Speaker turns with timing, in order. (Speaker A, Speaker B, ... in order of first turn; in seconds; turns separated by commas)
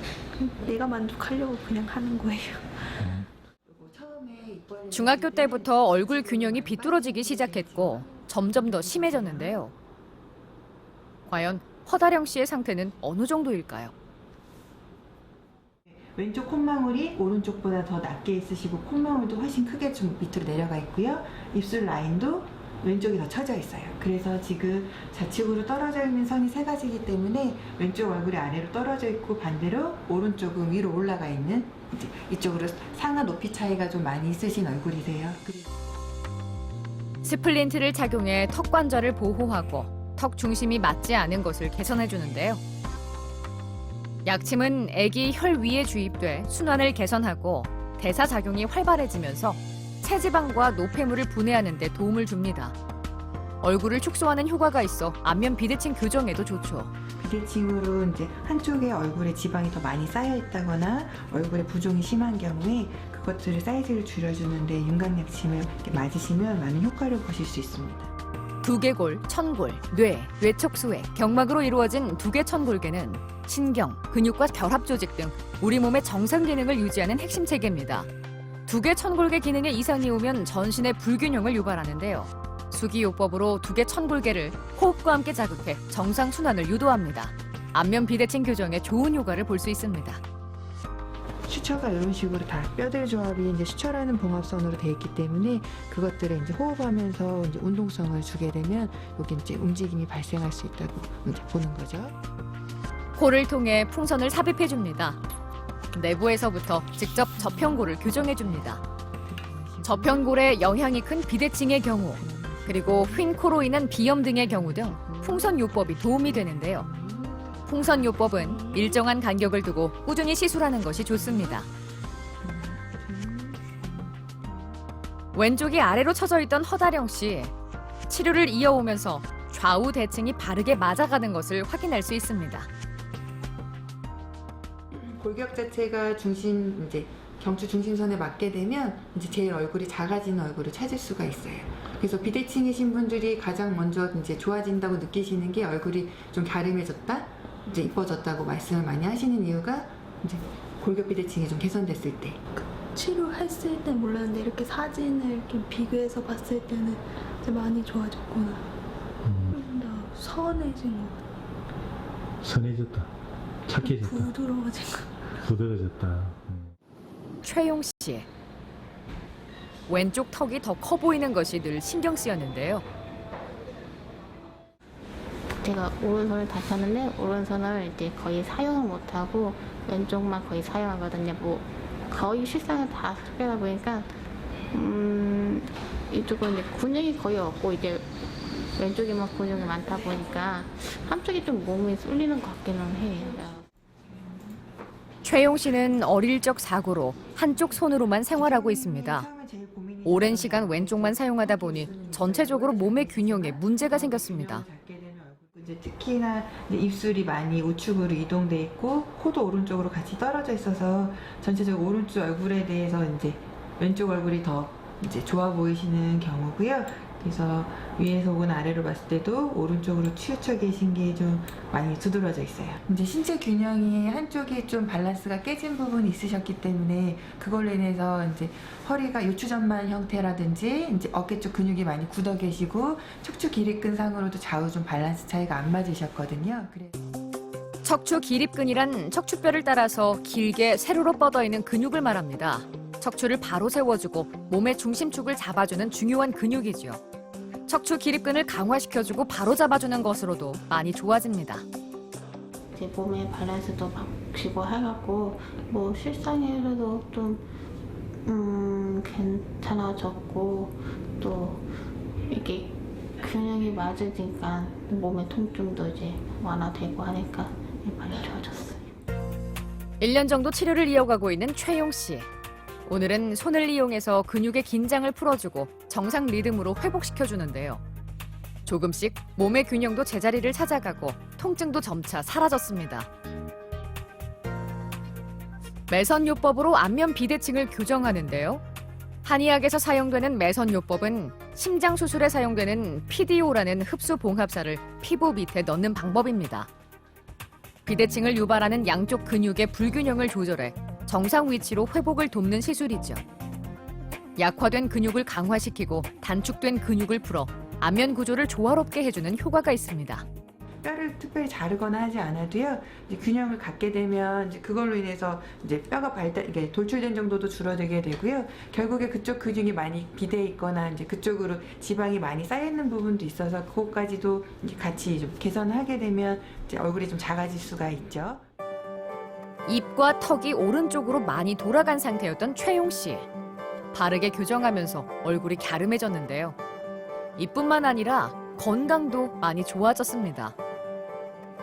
Speaker A: 0.4-2.8, Speaker B: 3.7-9.6, Speaker C: 4.9-9.7, Speaker C: 11.3-13.9, Speaker B: 15.8-35.7, Speaker C: 37.2-42.6, Speaker C: 44.2-52.8, Speaker C: 53.6-56.9, Speaker B: 57.2-68.1, Speaker C: 68.6-78.1, Speaker C: 78.7-90.2, Speaker B: 91.5-102.2, Speaker C: 103.2-105.2, Speaker C: 105.9-108.8, Speaker B: 107.4-110.5, Speaker C: 109.8-116.9, Speaker B: 112.2-113.2, Speaker B: 114.5-118.9, Speaker C: 117.7-121.7, Speaker B: 121.2-121.6, Speaker B: 122.4-124.7, Speaker C: 125.3-127.5, Speaker C: 128.1-132.7, Speaker B: 134.9-152.4, Speaker A: 152.9-158.6, Speaker D: 159.2-159.5, Speaker A: 159.5-161.2, Speaker D: 162.4-163.1, Speaker D: 163.7-164.3, Speaker A: 163.7-165.2, Speaker D: 165.4-166.7, Speaker C: 167.4-168.3, Speaker C: 169.9-172.8, Speaker E: 175.6-184.1, Speaker E: 184.7-193.7, Speaker C: 195.2-199.3, Speaker B: 198.3-237.0, Speaker C: 200.0-204.6, Speaker C: 237.8-247.0, Speaker C: 247.7-251.6, Speaker E: 252.7-257.4, Speaker E: 258.2-261.6, Speaker E: 262.3-268.9, Speaker C: 270.0-272.3, Speaker C: 272.9-277.8, Speaker C: 278.6-283.1, Speaker C: 285.9-288.6, Speaker C: 289.2-296.7, Speaker C: 297.9-303.2, Speaker C: 304.4-310.2, Speaker B: 310.8-328.4, Speaker C: 329.6-333.3, Speaker C: 333.9-336.6, Speaker C: 337.4-340.5